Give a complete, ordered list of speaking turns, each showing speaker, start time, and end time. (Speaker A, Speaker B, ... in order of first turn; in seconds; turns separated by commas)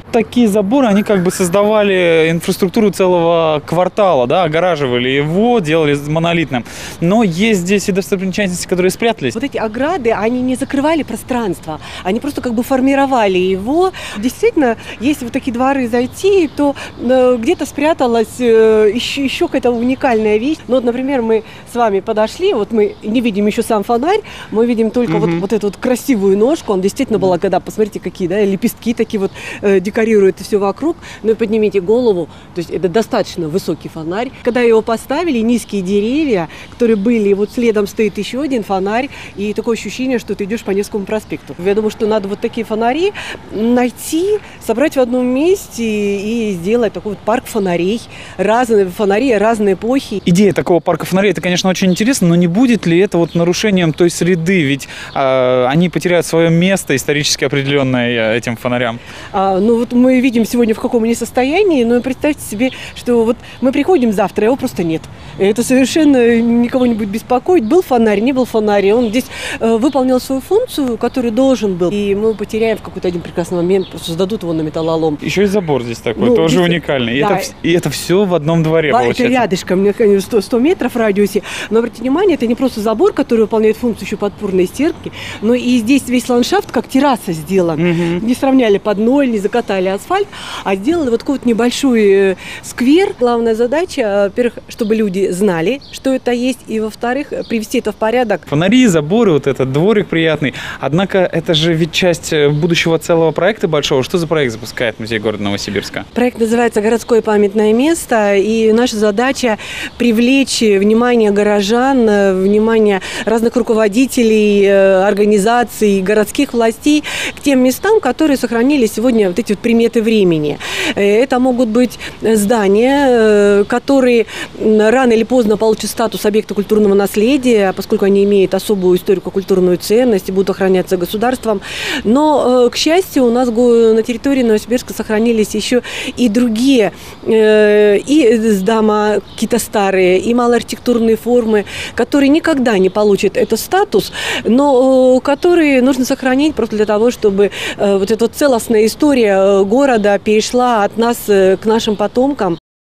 Speaker A: 0.1-9.4, Speaker B: 9.3-50.2, Speaker A: 50.3-59.0, Speaker B: 59.3-75.2, Speaker A: 75.2-79.5, Speaker B: 76.2-77.5, Speaker B: 78.9-98.4, Speaker A: 87.8-88.2, Speaker A: 98.5-106.0, Speaker B: 106.1-152.6